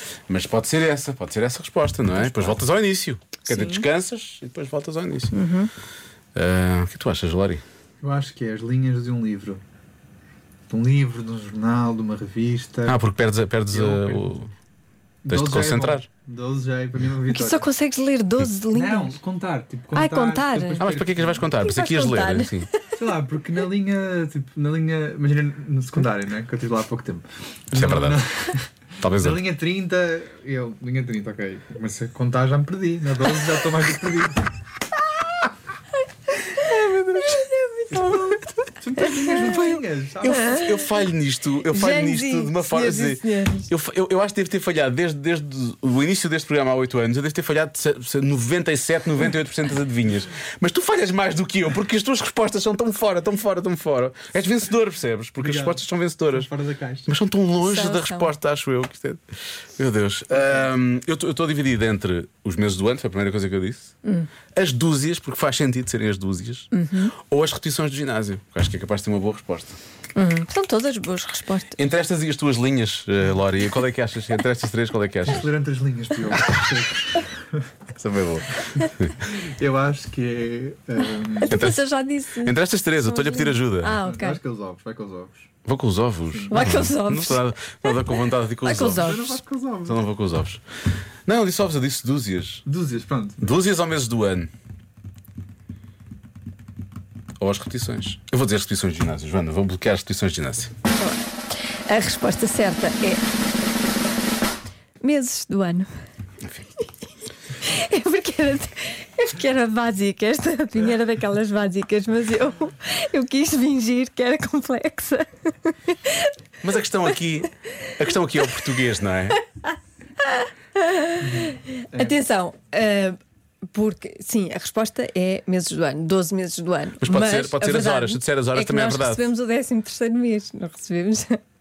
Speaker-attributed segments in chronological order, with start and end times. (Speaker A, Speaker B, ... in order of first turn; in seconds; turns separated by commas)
Speaker A: 0.3-5.3, Speaker B: 3.5-3.8, Speaker B: 5.3-5.7, Speaker A: 6.3-7.6, Speaker C: 8.0-9.6, Speaker C: 10.7-13.0, Speaker A: 12.9-14.5, Speaker C: 13.7-14.2, Speaker C: 15.2-17.7, Speaker A: 15.3-16.1, Speaker B: 17.3-19.2, Speaker C: 18.7-21.5, Speaker B: 19.9-20.9, Speaker A: 20.8-22.7, Speaker B: 21.6-22.9, Speaker C: 23.0-34.5, Speaker A: 27.7-28.2, Speaker A: 29.0-29.4, Speaker B: 36.3-39.8, Speaker C: 37.9-40.6, Speaker A: 40.2-56.5, Speaker B: 40.4-40.9, Speaker B: 41.7-43.7, Speaker C: 55.4-57.1, Speaker A: 57.1-59.2, Speaker B: 57.6-58.3, Speaker A: 59.8-63.9, Speaker A: 64.5-69.8, Speaker B: 66.7-67.1, Speaker B: 70.2-71.8, Speaker A: 71.8-75.5, Speaker C: 75.3-77.7, Speaker A: 78.0-79.2, Speaker C: 79.2-81.6, Speaker B: 81.4-84.4, Speaker A: 81.5-81.8, Speaker A: 82.4-84.0, Speaker C: 84.0-85.5, Speaker A: 85.7-89.3, Speaker C: 86.3-86.9, Speaker B: 86.5-88.0, Speaker B: 88.6-89.3, Speaker C: 88.9-90.0, Speaker A: 89.8-90.6, Speaker A: 91.3-92.6, Speaker C: 92.7-93.5, Speaker A: 93.4-94.5, Speaker A: 97.4-100.7, Speaker B: 100.9-101.2, Speaker B: 101.9-103.2, Speaker B: 105.0-105.9, Speaker B: 107.6-116.3, Speaker A: 116.6-119.4, Speaker B: 120.2-123.2, Speaker C: 121.2-122.2, Speaker B: 123.7-131.4, Speaker A: 127.0-129.2